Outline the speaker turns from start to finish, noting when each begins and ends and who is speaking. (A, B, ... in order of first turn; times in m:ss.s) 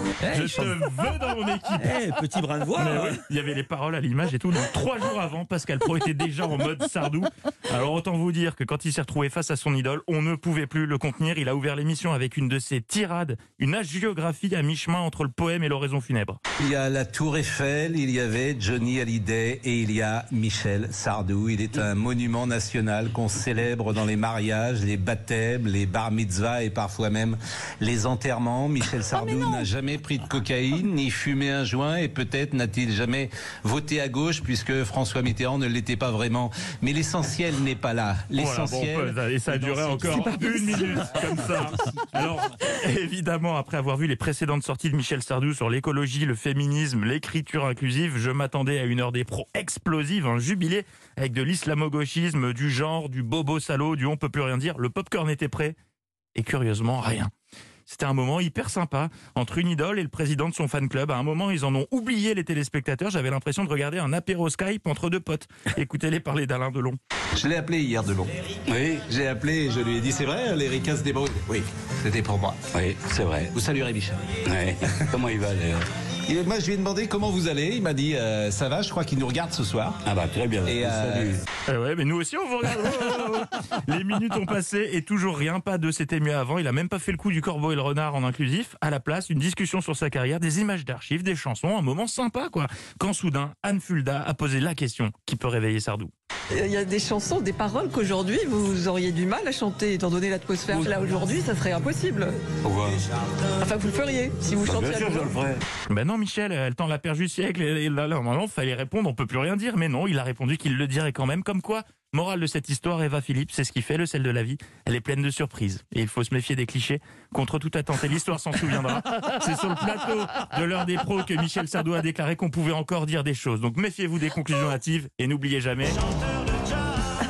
0:00.2-0:00.8 A
0:00.3-0:02.0 B
0:01.8-0:03.2 A
0:02.8-0:16.4 B
0:16.6-0:40.3 C
0:38.4-0:55.8 B
0:40.0-0:41.4 A
0:56.4-0:57.3 B
0:57.9-1:07.0 B
1:07.4-1:08.3 C
1:08.7-1:09.1 D
1:09.1-1:12.6 C
1:12.7-1:13.5 D
1:13.5-1:14.2 C
1:14.5-1:15.9 D
1:16.3-1:20.0 C
1:20.0-1:21.4 D
1:20.6-1:21.4 C
1:21.7-1:36.1 B
1:36.5-1:42.4 E
1:42.6-1:43.0 D
1:43.6-1:45.3 E
1:44.6-1:45.6 D
1:45.9-2:06.0 B